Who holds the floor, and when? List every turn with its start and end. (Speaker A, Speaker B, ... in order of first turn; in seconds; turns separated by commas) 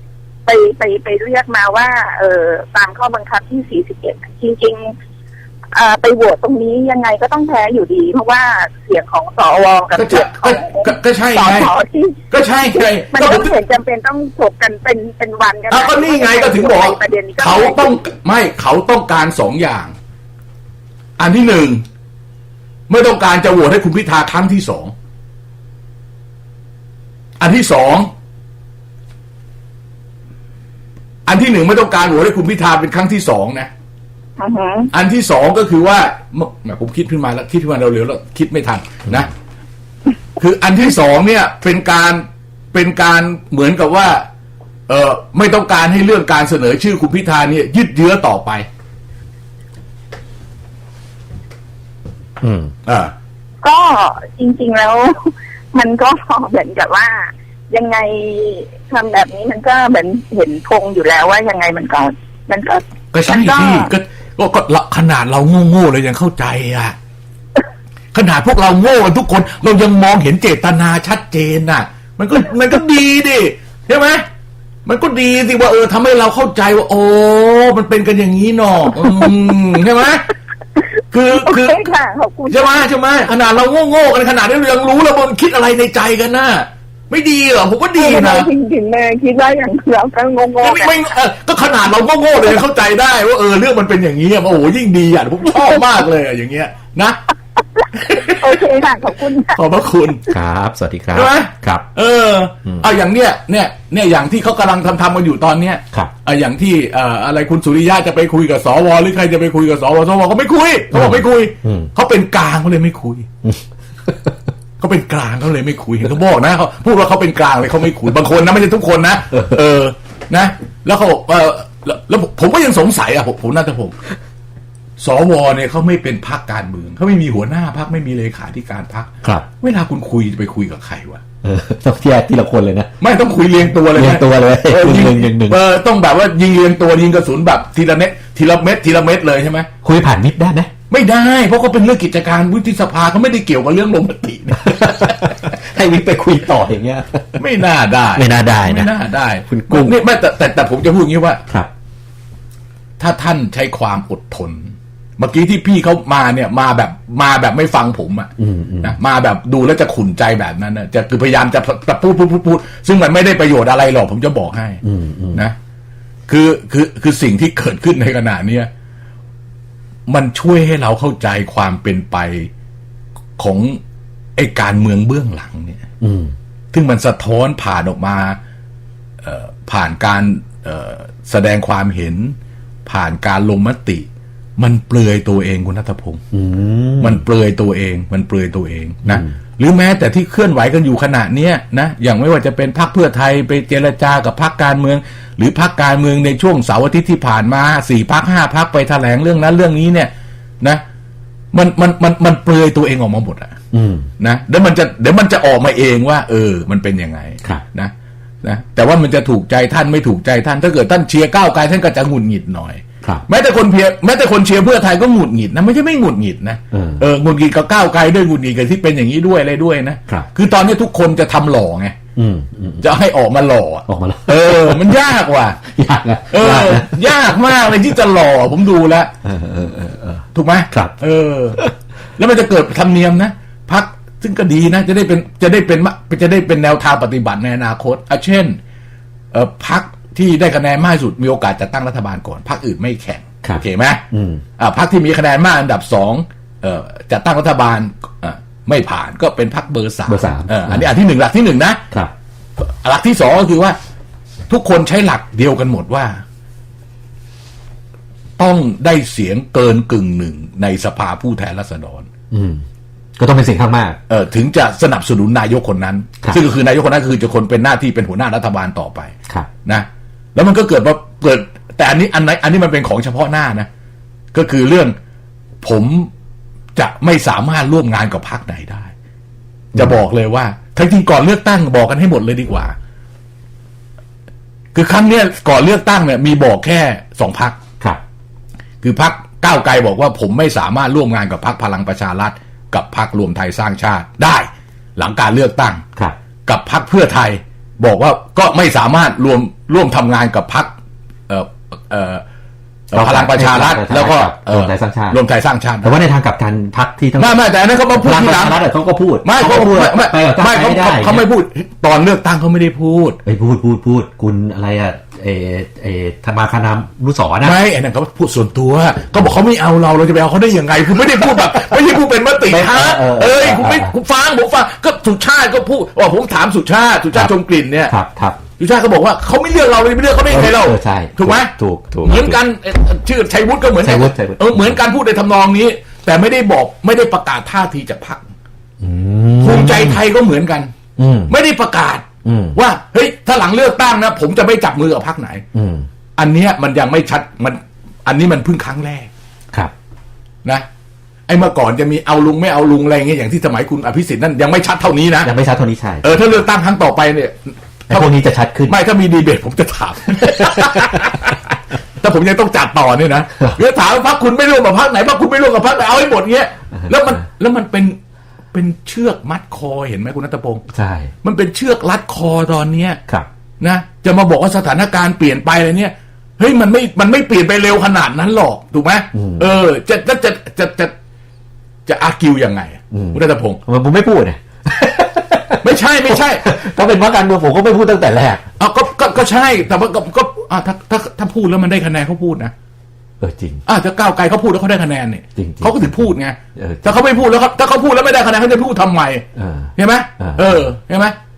Speaker A: 0.5-4.9, Speaker A: 5.7-12.2, Speaker B: 9.9-11.7, Speaker B: 12.3-13.5, Speaker A: 12.7-17.9, Speaker B: 15.7-19.9, Speaker B: 21.2-21.8, Speaker B: 22.9-24.9, Speaker B: 27.4-28.1, Speaker B: 31.3-33.7, Speaker A: 34.4-34.9, Speaker B: 34.9-39.3, Speaker B: 40.4-44.2, Speaker B: 44.9-48.7, Speaker C: 52.4-52.7, Speaker B: 52.9-53.1, Speaker A: 53.6-63.9, Speaker B: 63.1-66.9, Speaker B: 68.1-74.2, Speaker B: 74.8-80.3, Speaker B: 81.1-81.8, Speaker A: 81.3-82.8, Speaker B: 82.5-88.5, Speaker A: 88.0-91.0, Speaker B: 90.6-97.2, Speaker B: 97.9-98.6, Speaker A: 98.2-99.6, Speaker B: 99.5-100.3, Speaker C: 100.3-101.8, Speaker B: 101.1-113.3, Speaker C: 110.9-111.9, Speaker C: 113.4-114.3, Speaker B: 114.8-124.0, Speaker B: 125.0-131.2, Speaker C: 131.4-132.9, Speaker B: 133.0-139.7, Speaker C: 133.9-135.6, Speaker C: 139.8-140.7, Speaker B: 140.9-145.3, Speaker C: 144.6-147.3, Speaker B: 147.4-151.4, Speaker C: 148.1-148.9, Speaker C: 149.5-150.0, Speaker B: 153.0-158.3, Speaker C: 158.4-159.0, Speaker B: 158.8-164.8, Speaker C: 164.8-165.4, Speaker B: 166.3-168.7, Speaker B: 170.1-172.5, Speaker B: 173.4-173.8, Speaker B: 174.3-175.8, Speaker C: 176.0-176.3, Speaker B: 176.7-178.4, Speaker B: 179.2-186.2, Speaker C: 186.3-187.2, Speaker B: 187.0-200.1, Speaker B: 201.5-203.5, Speaker C: 203.7-204.1, Speaker B: 204.2-207.9, Speaker B: 208.4-221.9, Speaker C: 216.7-217.1, Speaker C: 222.2-222.9, Speaker B: 222.8-225.6, Speaker C: 223.9-225.1, Speaker C: 225.7-227.8, Speaker B: 226.3-229.1, Speaker C: 229.2-230.9, Speaker B: 230.3-231.6, Speaker B: 232.2-238.6, Speaker B: 239.3-244.0, Speaker C: 243.4-244.4, Speaker B: 244.6-251.8, Speaker C: 250.1-250.9, Speaker B: 252.6-253.8, Speaker B: 254.5-256.2, Speaker B: 258.4-262.1, Speaker C: 262.3-262.6, Speaker C: 263.2-264.0, Speaker B: 264.1-269.1, Speaker B: 269.6-273.7, Speaker B: 274.3-274.9, Speaker B: 275.6-276.1, Speaker B: 276.8-278.9, Speaker B: 279.7-282.7, Speaker B: 284.7-287.6, Speaker B: 288.8-295.8, Speaker B: 296.4-300.7, Speaker B: 301.3-302.2, Speaker B: 302.9-306.0, Speaker C: 302.9-305.2, Speaker C: 305.8-307.4, Speaker B: 307.2-308.6, Speaker C: 307.9-311.2, Speaker B: 309.2-313.2, Speaker C: 313.2-317.6, Speaker B: 317.4-327.9, Speaker C: 322.4-323.9, Speaker C: 327.9-328.4, Speaker B: 328.6-338.2, Speaker C: 330.3-332.4, Speaker C: 333.8-334.8, Speaker C: 338.8-340.0, Speaker B: 339.4-340.7, Speaker C: 341.0-341.3, Speaker B: 341.3-345.4, Speaker C: 342.2-342.6, Speaker C: 345.5-345.9, Speaker B: 346.2-349.1, Speaker B: 351.3-355.3, Speaker C: 355.2-356.4, Speaker B: 356.0-358.1, Speaker C: 357.9-358.8, Speaker B: 358.7-367.9, Speaker C: 360.5-360.8, Speaker B: 368.5-370.6, Speaker C: 370.7-371.1, Speaker B: 371.2-373.0, Speaker B: 373.6-380.9, Speaker C: 379.1-379.5, Speaker B: 381.9-383.6, Speaker C: 382.9-388.4, Speaker B: 385.6-386.4, Speaker B: 388.6-392.5, Speaker C: 393.2-393.6, Speaker B: 393.6-401.1, Speaker C: 395.4-397.1, Speaker C: 399.4-400.7